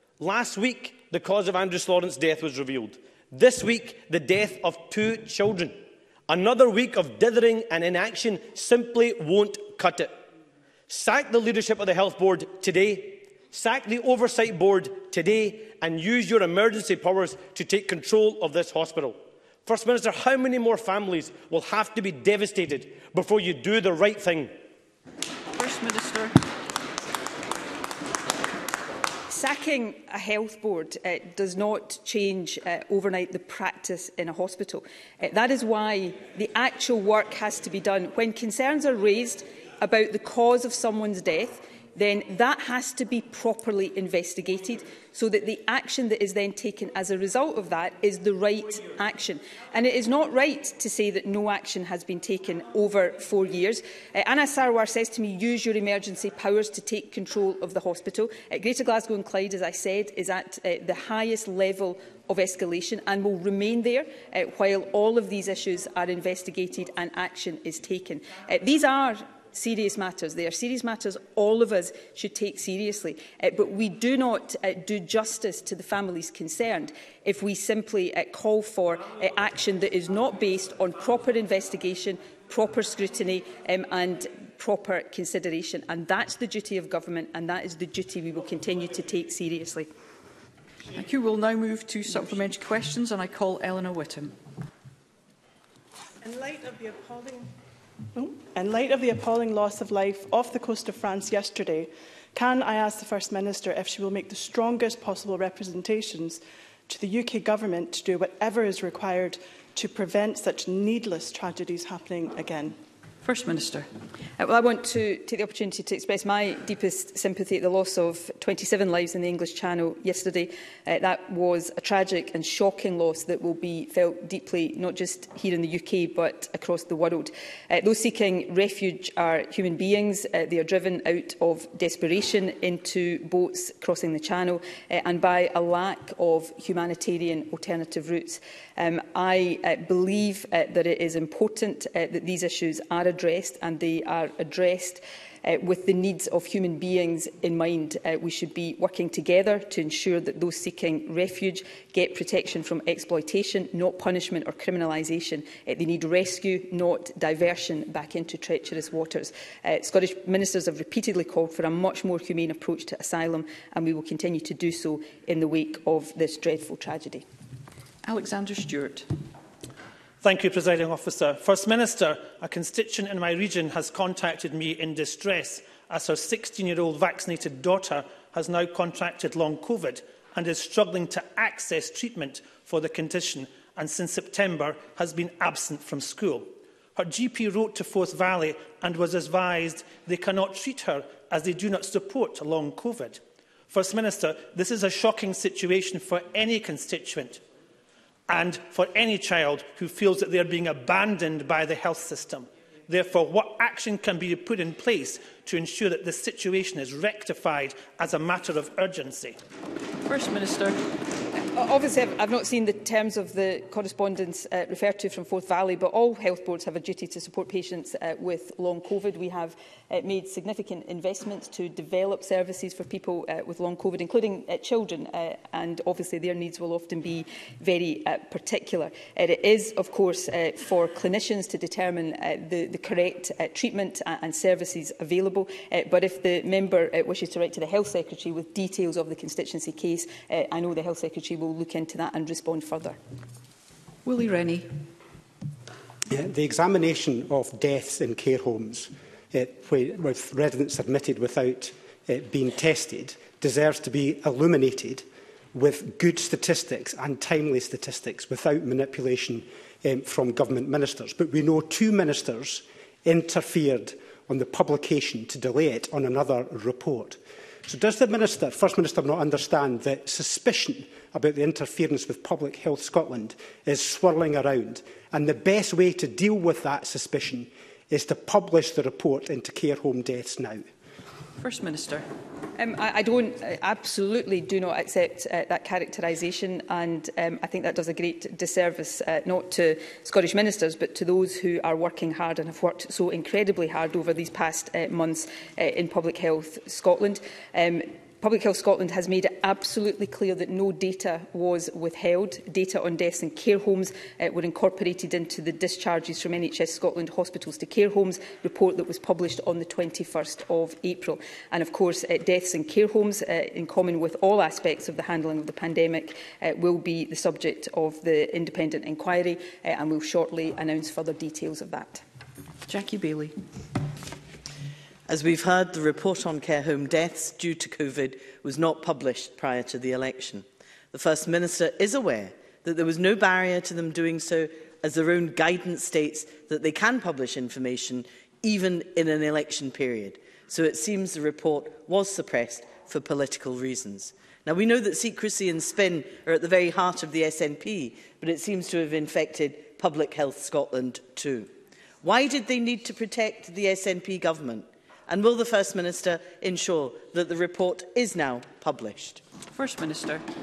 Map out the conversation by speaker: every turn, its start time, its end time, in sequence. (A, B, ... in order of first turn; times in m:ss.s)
0:00.2-0:10.2 A
0:10.9-0:24.5 A
0:25.5-0:26.4 B
0:29.3-1:29.9 C
1:30.9-1:34.4 B
1:36.2-1:37.5 D
1:38.1-1:52.8 D
1:53.2-1:53.9 B
1:54.4-2:47.2 C
2:48.0-2:49.1 B
2:50.2-3:17.4 E
3:18.3-3:29.4 E
3:30.0-3:30.8 B
3:31.5-4:03.0 C
4:04.0-4:04.8 B
4:06.1-4:40.7 F
4:41.4-4:42.0 B
4:42.6-5:22.0 C
5:22.7-5:23.3 B
5:25.1-5:51.5 G
5:52.0-5:59.2 G
5:59.5-6:00.2 B